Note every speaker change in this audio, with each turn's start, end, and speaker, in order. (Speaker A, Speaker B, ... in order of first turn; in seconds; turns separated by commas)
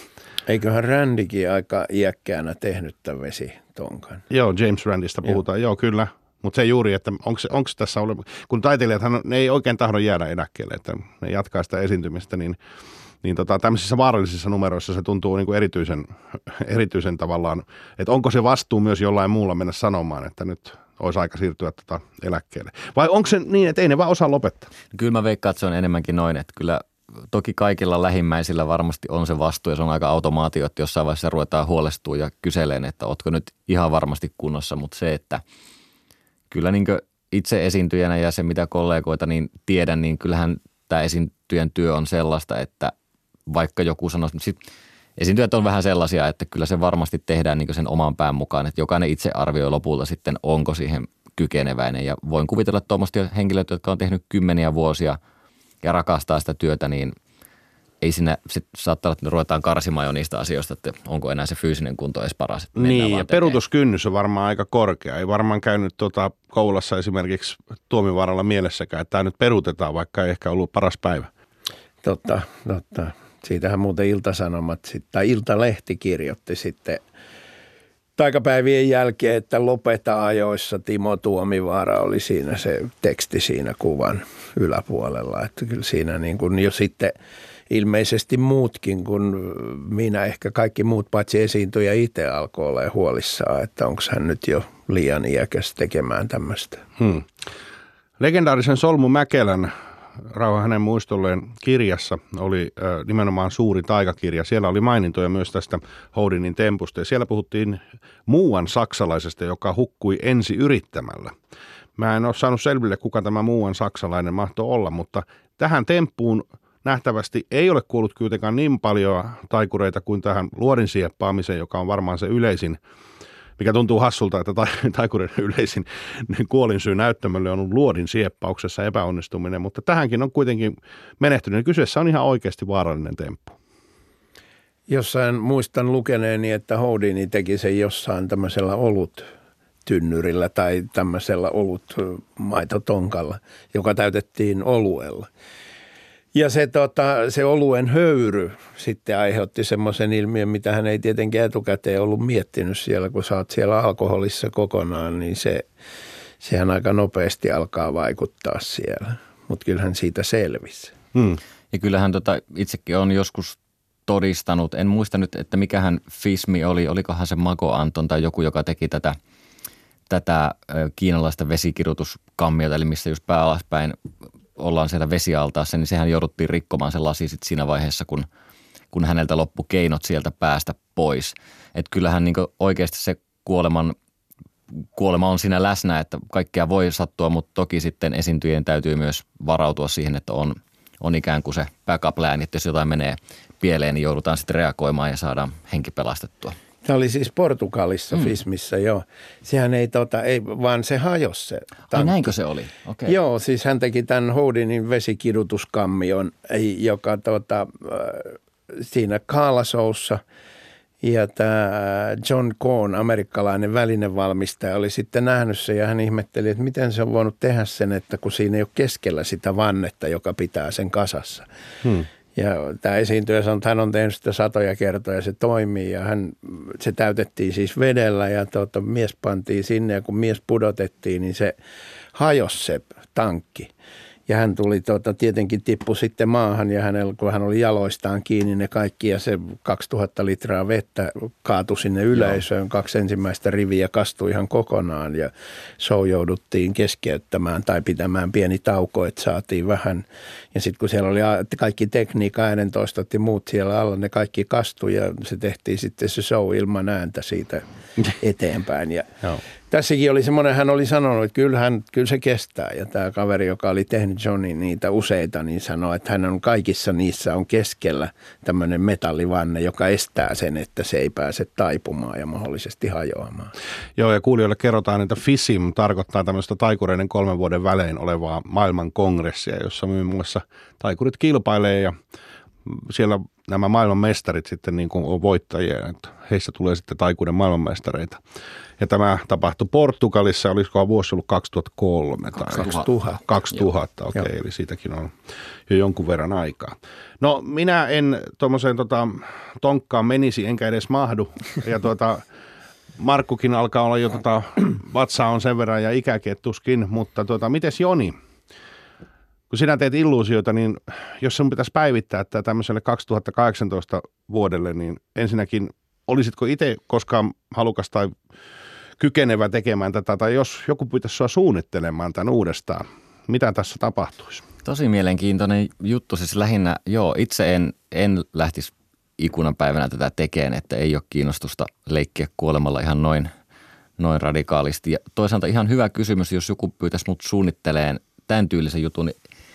Speaker A: 0.5-4.2, Speaker B: 4.3-12.6, Speaker B: 13.2-24.7, Speaker C: 24.9-35.4, Speaker C: 36.5-42.9, Speaker C: 43.5-44.6, Speaker C: 45.2-55.2, Speaker C: 55.8-57.1, Speaker C: 58.0-63.6, Speaker B: 62.8-71.3, Speaker A: 72.0-77.0, Speaker A: 78.2-87.1, Speaker A: 87.7-96.8, Speaker B: 97.0-97.3, Speaker B: 98.2-99.7, Speaker B: 100.3-111.3, Speaker B: 112.0-122.8, Speaker B: 123.6-133.6, Speaker A: 134.9-139.3, Speaker A: 139.8-145.3, Speaker A: 146.3-155.7, Speaker A: 156.4-160.9, Speaker B: 161.1-161.4, Speaker C: 161.7-169.2, Speaker C: 170.1-174.0, Speaker C: 174.6-178.3, Speaker C: 178.9-183.9, Speaker C: 184.7-196.6, Speaker A: 196.8-202.3, Speaker C: 201.9-203.1, Speaker A: 203.1-210.2, Speaker A: 211.0-221.4, Speaker A: 222.3-231.5, Speaker A: 232.1-233.7, Speaker A: 234.3-257.6, Speaker A: 258.1-259.1, Speaker A: 259.6-273.5, Speaker B: 274.0-281.9, Speaker B: 282.6-288.2, Speaker B: 288.8-295.1, Speaker A: 292.5-293.2, Speaker B: 295.7-302.2, Speaker B: 303.0-308.1, Speaker B: 309.5-318.1, Speaker B: 319.0-324.4, Speaker C: 324.6-333.3, Speaker C: 334.0-339.1